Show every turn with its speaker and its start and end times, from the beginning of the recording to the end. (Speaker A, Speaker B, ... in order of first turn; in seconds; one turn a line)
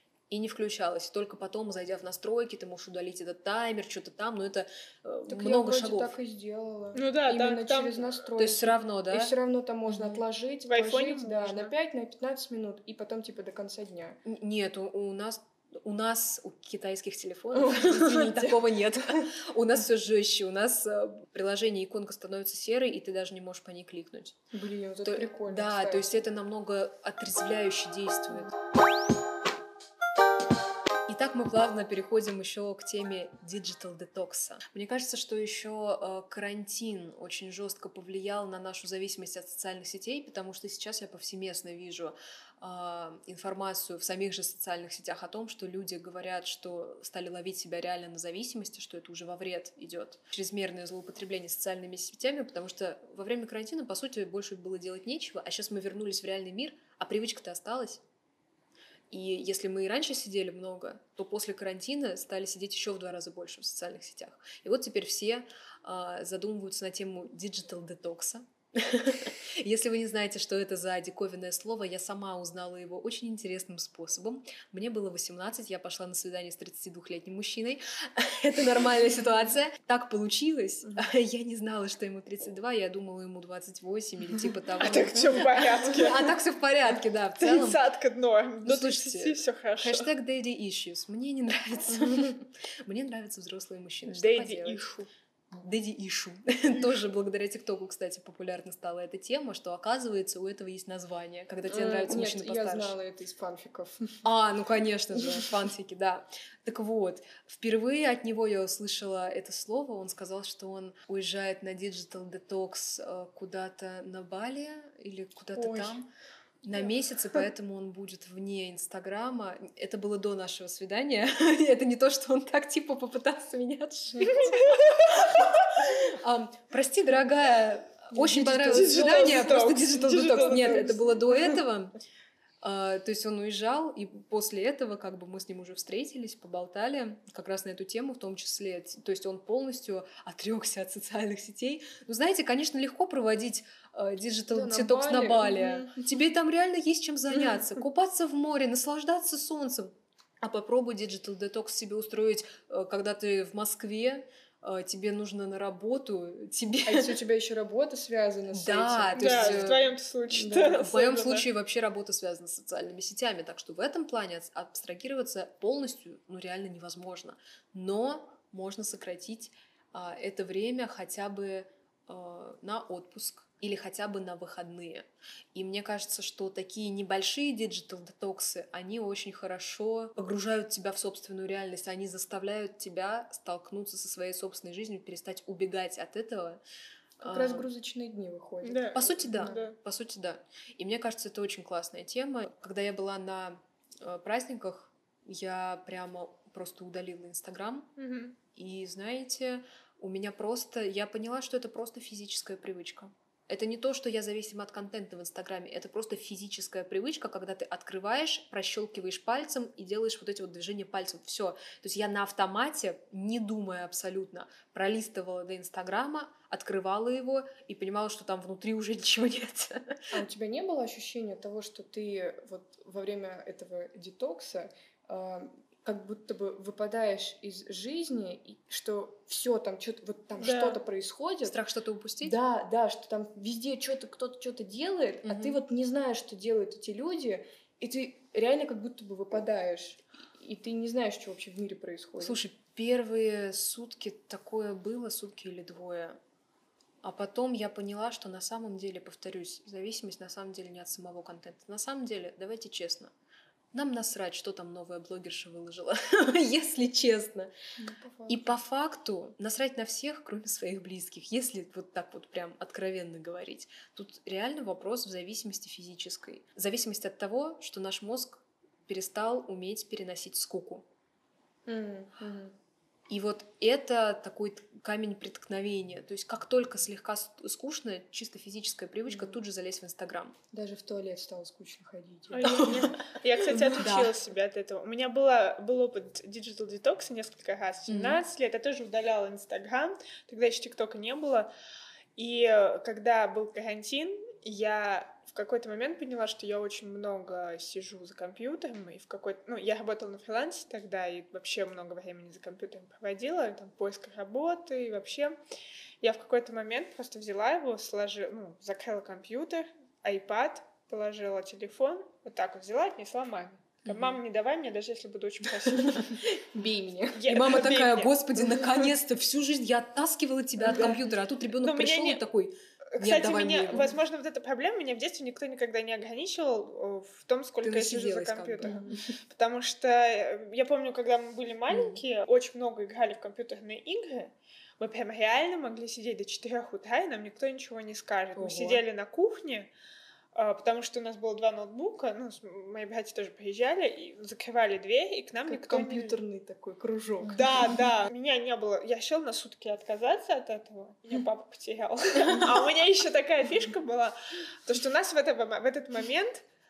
Speaker A: 0.3-6.1
Speaker B: 5.3-14.2
Speaker C: 6.9-8.1
Speaker A: 8.4-9.3
Speaker A: 9.9-10.2
Speaker C: 10.7-11.7
Speaker A: 14.2-24.4
Speaker B: 17.5-19.3
Speaker B: 24.5-26.2
Speaker A: 25.0-28.5
Speaker A: 31.1-58.0
Speaker A: 59.1-87.8
Speaker C: 84.8-86.3
Speaker C: 87.4-90.1
Speaker A: 88.6-94.9
Speaker C: 94.0-95.1
Speaker A: 95.5-103.0
Speaker B: 101.6-104.2
Speaker A: 104.2-116.1
Speaker B: 105.1-105.5
Speaker C: 115.6-115.9
Speaker A: 116.6-131.9
Speaker C: 124.3-125.0
Speaker B: 128.1-129.8
Speaker C: 128.7-131.0
Speaker B: 130.3-130.9
Speaker A: 132.6-157.2
Speaker B: 144.5-146.2
Speaker B: 156.8-160.8
Speaker A: 158.5-159.9
Speaker C: 159.2-161.5
Speaker A: 160.7-186.6
Speaker A: 187.2-187.7
Speaker B: 187.2-189.6
Speaker C: 188.6-189.8
Speaker A: 188.9-197.9
Speaker C: 198.0-198.4
Speaker A: 198.5-220.0
Speaker B: 220.1-231.6
Speaker C: 230.4-230.8
Speaker A: 231.4-232.4
Speaker B: 232.2-242.4
Speaker A: 235.2-235.6
Speaker A: 242.2-246.2
Speaker A: 247.0-253.1
Speaker A: 253.7-257.5
Speaker B: 257.8-258.6
Speaker A: 258.3-270.8
Speaker B: 271.6-272.5
Speaker A: 273.1-280.4
Speaker B: 279.1-279.4
Speaker B: 280.5-283.0
Speaker C: 282.3-291.5
Speaker A: 282.4-283.0
Speaker A: 283.5-284.1
Speaker A: 287.9-288.2
Speaker C: 292.1-305.4
Speaker C: 306.0-316.2
Speaker B: 315.8-317.2
Speaker C: 317.1-318.2
Speaker A: 317.3-323.9
Speaker B: 320.6-320.9
Speaker C: 320.7-321.0
Speaker C: 321.6-322.2
Speaker C: 322.9-339.7
Speaker A: 327.6-328.8
Speaker B: 328.6-329.0
Speaker A: 331.7-332.0
Speaker B: 338.4-338.8
Speaker C: 340.3-346.2
Speaker B: 345.5-347.8
Speaker A: 347.2-347.6
Speaker C: 347.3-356.4